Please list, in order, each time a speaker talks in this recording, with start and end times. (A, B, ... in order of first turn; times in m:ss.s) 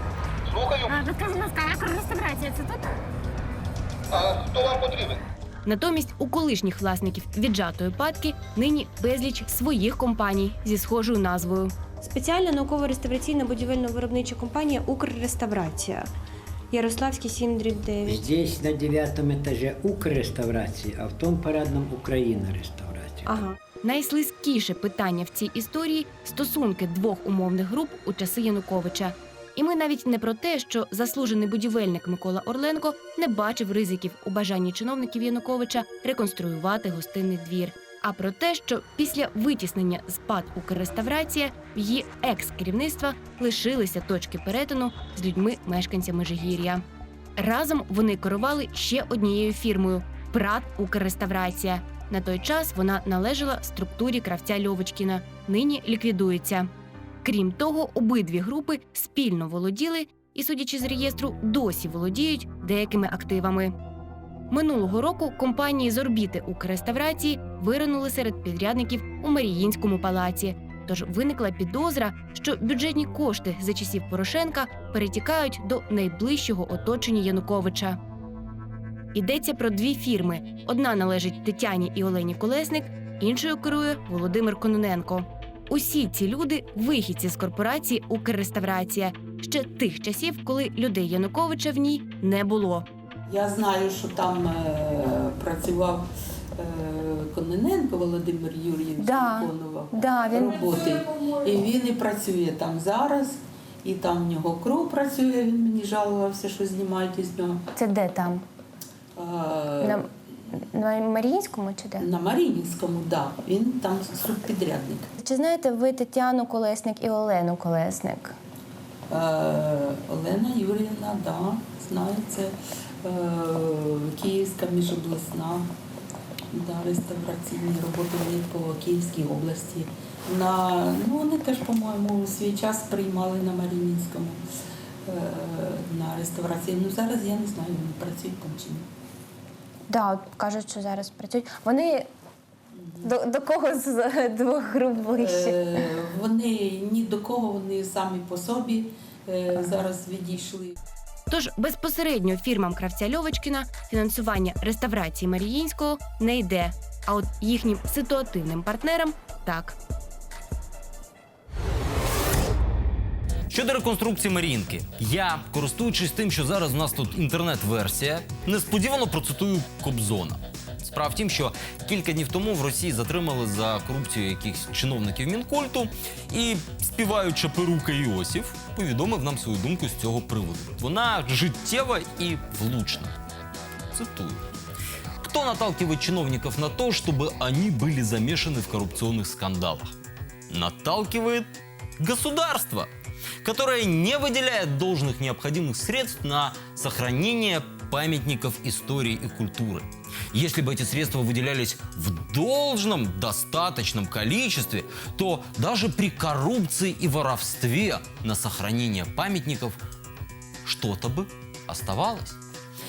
0:00.8-0:02.8 A
0:05.6-0:12.2 B
0:12.9-0:15.9 C
0:16.7-0:18.0 C
0:18.0-0:23.4 D
0:23.8-0:46.8 B
0:47.4-0:56.7 B
0:57.2-1:03.8 B
1:04.5-1:18.0 B
1:19.1-1:32.9 B
1:33.3-1:47.6 E
1:39.0-1:40.6 A
1:47.8-1:48.4 A
1:49.2-1:50.1 E
1:50.6-1:52.1 A
1:52.0-1:55.1 E
1:55.2-1:58.4 A
1:59.1-2:05.7 E
2:06.5-2:14.4 E
2:15.1-2:18.9 E
2:19.9-2:22.1 A
2:22.7-2:23.2 E
2:23.0-2:25.6 A
2:25.1-2:30.8 E
2:31.3-2:39.8 B
2:43.5-3:03.1 F
3:03.9-3:04.4 F
3:05.2-3:10.0 F
3:10.5-3:12.9 F
3:13.4-3:29.8 F
3:30.6-3:32.4 F